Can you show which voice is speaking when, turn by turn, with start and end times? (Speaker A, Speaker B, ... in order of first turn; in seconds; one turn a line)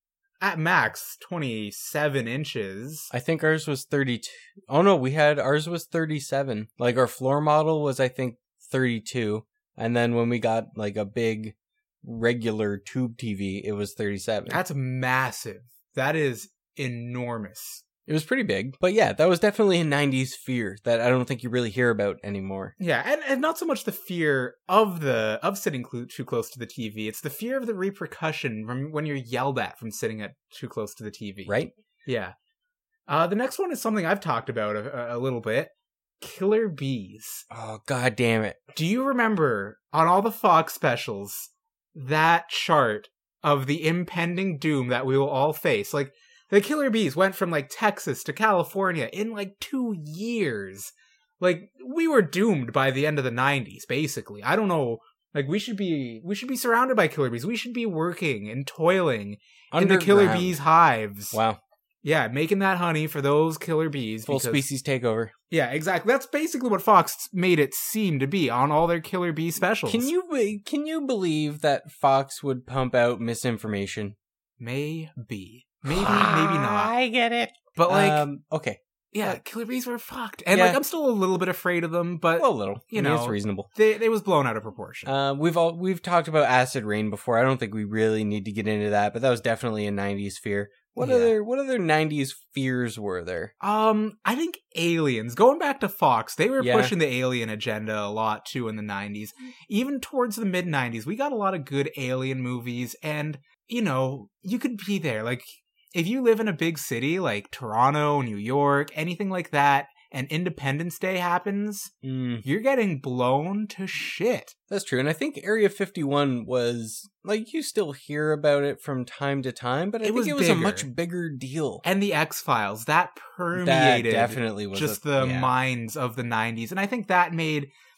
Speaker A: 0.4-3.1
Speaker B: 3.1-14.6
Speaker A: 14.5-17.8
Speaker B: 18.1-22.7
Speaker A: 22.8-32.3
Speaker B: 31.5-31.7
Speaker A: 33.1-37.4
Speaker B: 37.5-38.6
Speaker A: 38.7-61.4
Speaker B: 59.7-60.6
Speaker B: 61.3-61.6
Speaker A: 62.0-64.6
Speaker B: 64.3-65.3
Speaker A: 65.5-70.1
Speaker B: 69.9-74.2
Speaker A: 74.6-76.9
Speaker B: 75.8-79.4
Speaker A: 77.8-78.2
Speaker A: 79.1-85.1
Speaker B: 80.5-80.8
Speaker B: 82.4-83.7
Speaker B: 85.0-93.5
Speaker A: 91.0-91.3
Speaker A: 93.6-111.9
Speaker B: 96.6-96.9
Speaker B: 112.0-112.5
Speaker A: 112.4-114.5
Speaker B: 114.7-121.8
Speaker A: 120.0-120.9
Speaker A: 121.8-127.7
Speaker B: 123.5-125.5